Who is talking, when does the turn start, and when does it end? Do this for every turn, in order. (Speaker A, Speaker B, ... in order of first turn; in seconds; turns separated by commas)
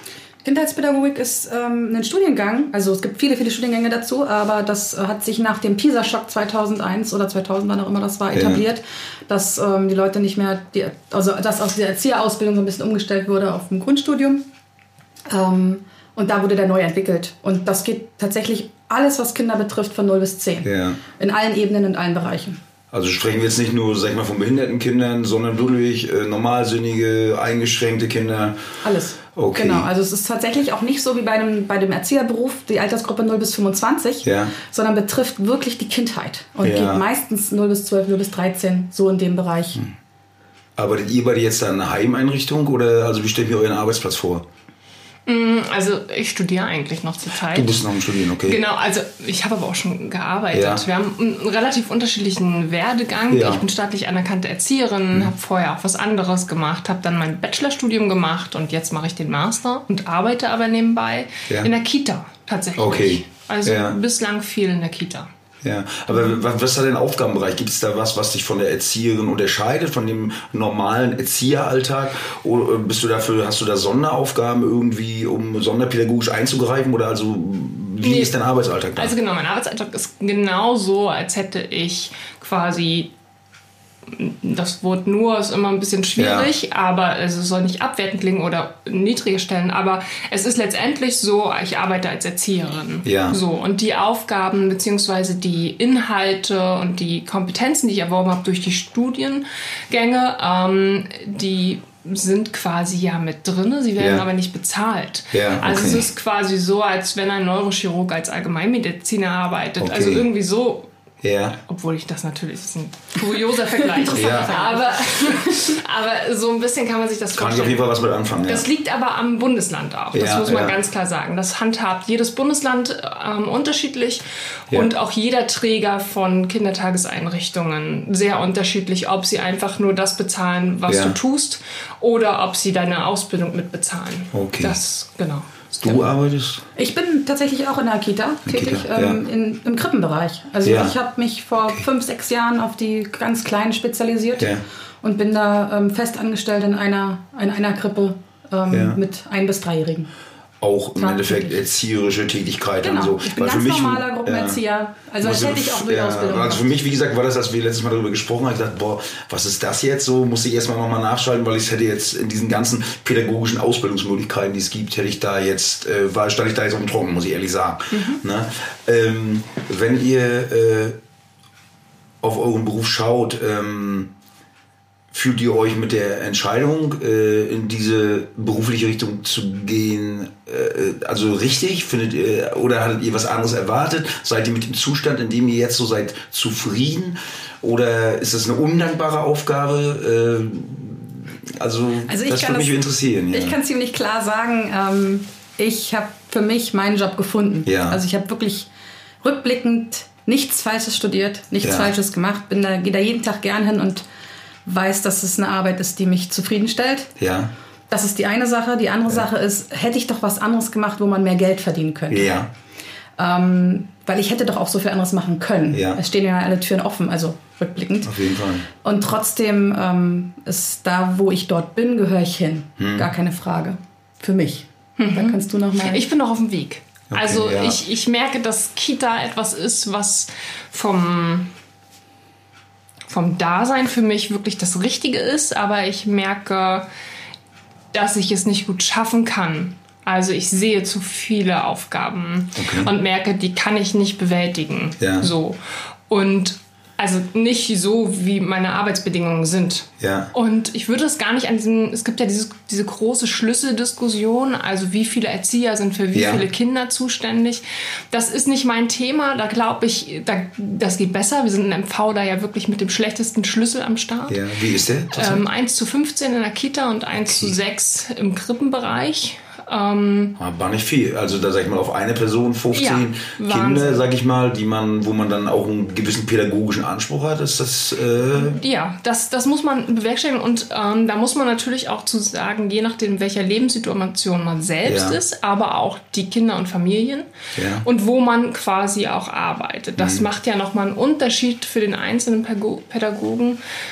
Speaker A: 0.4-14.4, Speaker B: 8.3-8.6, Speaker A: 15.3-22.6, Speaker B: 20.6-21.0, Speaker B: 22.9-28.6, Speaker A: 28.8-39.8, Speaker B: 29.3-29.9, Speaker B: 34.2-34.5, Speaker B: 36.6-37.0, Speaker B: 40.8-44.4, Speaker C: 45.3-47.8, Speaker B: 47.5-48.6, Speaker C: 48.4-65.3, Speaker B: 50.5-50.8, Speaker B: 53.3-53.6, Speaker B: 62.8-64.0, Speaker B: 65.6-79.1, Speaker C: 78.0-78.3, Speaker C: 78.9-83.1, Speaker C: 84.1-110.9, Speaker B: 86.2-86.5, Speaker B: 93.0-93.4, Speaker B: 104.0-104.2, Speaker B: 105.3-106.1, Speaker B: 109.8-110.3, Speaker B: 111.2-111.6, Speaker C: 111.7-117.9, Speaker A: 113.8-115.8, Speaker B: 114.1-114.6, Speaker B: 117.3-118.7, Speaker C: 118.4-136.0, Speaker B: 120.1-120.8, Speaker B: 130.9-131.2, Speaker B: 134.3-134.8, Speaker B: 135.8-136.7, Speaker A: 136.8-150.1, Speaker B: 138.4-139.2, Speaker B: 140.6-140.9, Speaker B: 144.4-144.6, Speaker B: 148.7-149.0, Speaker B: 150.6-154.6, Speaker A: 150.9-151.6, Speaker A: 152.8-156.7, Speaker B: 155.2-171.0, Speaker C: 167.9-168.2, Speaker B: 172.2-174.1, Speaker B: 175.1-193.6, Speaker A: 192.1-198.7, Speaker B: 197.7-198.0, Speaker A: 199.2-204.0, Speaker B: 201.6-201.9, Speaker A: 204.7-207.1, Speaker B: 207.2-207.5, Speaker A: 207.9-212.3, Speaker B: 212.1-212.5, Speaker A: 213.2-218.1, Speaker B: 215.7-216.0, Speaker B: 218.0-218.7, Speaker A: 218.8-226.0, Speaker B: 222.8-223.1, Speaker C: 225.0-231.5, Speaker B: 227.1-227.8, Speaker C: 233.1-236.8, Speaker C: 237.9-245.6, Speaker B: 242.6-242.9, Speaker B: 245.0-245.3, Speaker C: 246.1-264.4, Speaker B: 250.0-250.3, Speaker B: 256.1-256.4, Speaker B: 264.3-265.4, Speaker C: 265.1-270.4, Speaker B: 267.2-267.5, Speaker B: 270.4-278.6, Speaker C: 272.7-274.0, Speaker C: 278.3-287.3, Speaker B: 284.8-285.2, Speaker B: 287.5-287.8, Speaker C: 287.8-293.6, Speaker B: 290.0-290.3